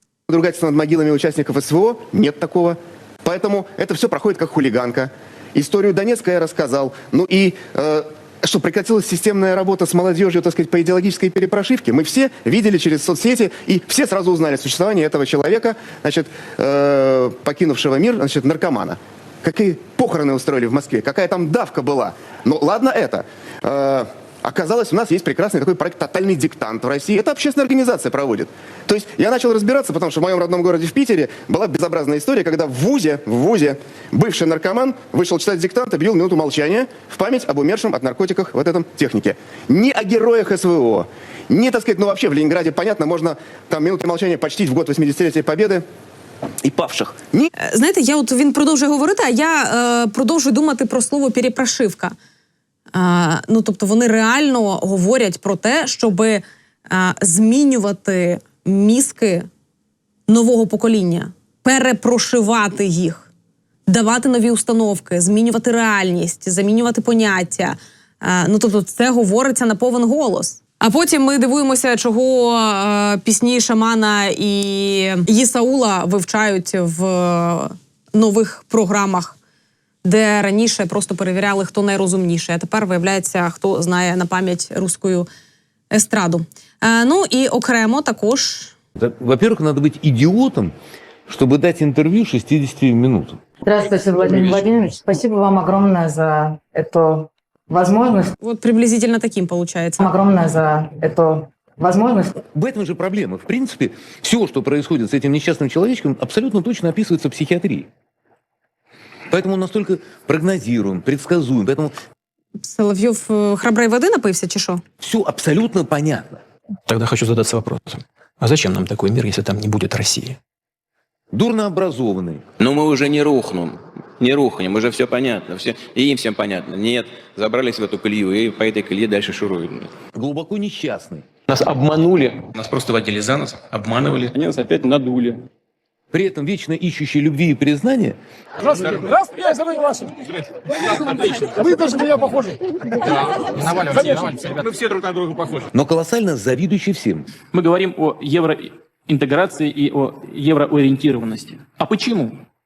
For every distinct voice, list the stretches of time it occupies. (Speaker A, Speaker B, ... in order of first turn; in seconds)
Speaker A: 0.3-45.8, 46.6-47.5
Speaker B: 47.6-52.2, 52.9-59.5, 60.3-63.3, 63.9-79.3, 80.0-85.3, 85.9-88.8, 98.4-100.0, 112.6-114.8
Speaker C: 89.0-90.8, 91.3-93.5, 102.5-107.9, 109.3-112.0, 115.0-116.4, 121.3-122.5, 130.1-131.3, 136.1-138.2, 145.7-147.3
Speaker D: 93.6-98.3, 100.0-102.3
Speaker E: 116.9-120.4, 131.5-135.4, 138.7-140.1, 141.6-142.4, 143.9-144.4, 147.5-152.4
Speaker F: 122.6-129.9